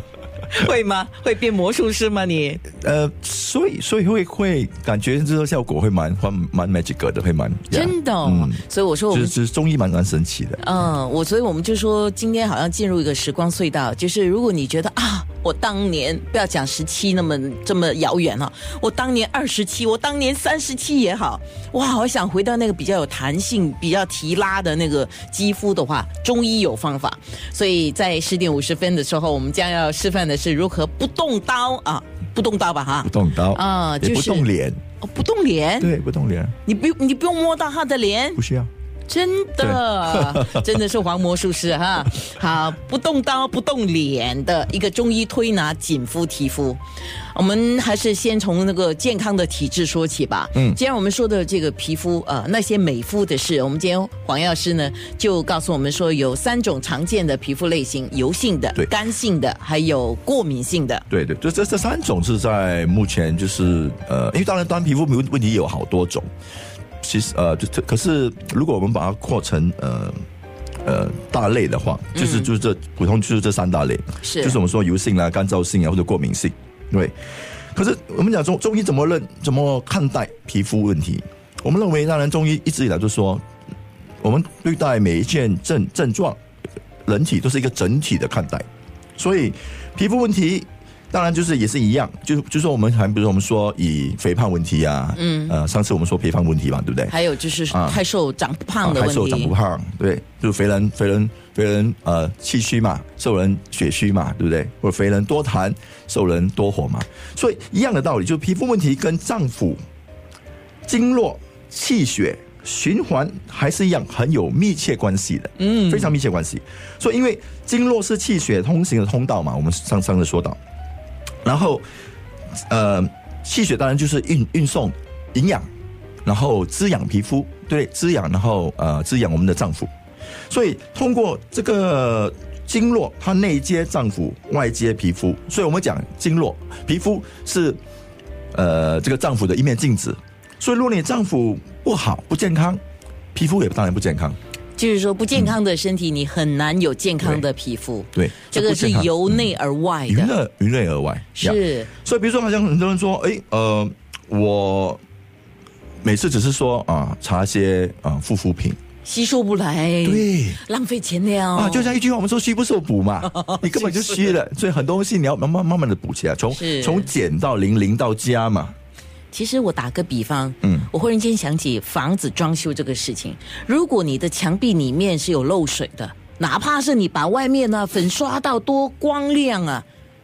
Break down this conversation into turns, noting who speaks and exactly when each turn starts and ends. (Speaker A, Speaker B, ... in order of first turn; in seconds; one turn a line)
Speaker A: 0.5-2.6
Speaker B: 2.7-8.6
Speaker A: 7.7-9.4
Speaker B: 9.1-10.6
Speaker A: 10.6-34.5
Speaker B: 33.0-34.8
Speaker A: 35.0-35.9
Speaker B: 35.8-36.5
Speaker A: 36.6-38.4
Speaker B: 38.4-38.7
Speaker A: 39.1-61.0
Speaker B: 39.6-40.7
Speaker B: 50.5-50.8
Speaker B: 61.1-66.3
Speaker B: 67.0-70.2
Speaker B: 70.8-77.1
Speaker A: 72.2-72.5
Speaker A: 74.2-74.6
Speaker B: 77.7-83.4
Speaker B: 84.2-86.4
Speaker B: 87.1-88.7
Speaker B: 89.2-97.1
Speaker A: 95.2-95.6
Speaker A: 97.1-99.5
Speaker B: 97.7-98.0
Speaker B: 98.8-109.8
Speaker B: 110.9-120.6
Speaker A: 115.6-116.2
Speaker B: 121.5-121.8
Speaker B: 122.7-125.7
Speaker B: 126.2-129.9
Speaker B: 130.5-137.8
Speaker B: 138.5-142.8
Speaker B: 143.3-144.4
Speaker A: 144.8-150.3
Speaker B: 148.1-149.5
Speaker B: 150.1-155.0
Speaker A: 151.4-151.9
Speaker B: 156.0-158.8
Speaker A: 159.1-161.9
Speaker B: 160.0-160.6
Speaker B: 161.5-168.8
Speaker A: 163.3-164.4
Speaker A: 166.5-167.1
Speaker A: 169.3-179.8
Speaker B: 170.6-170.9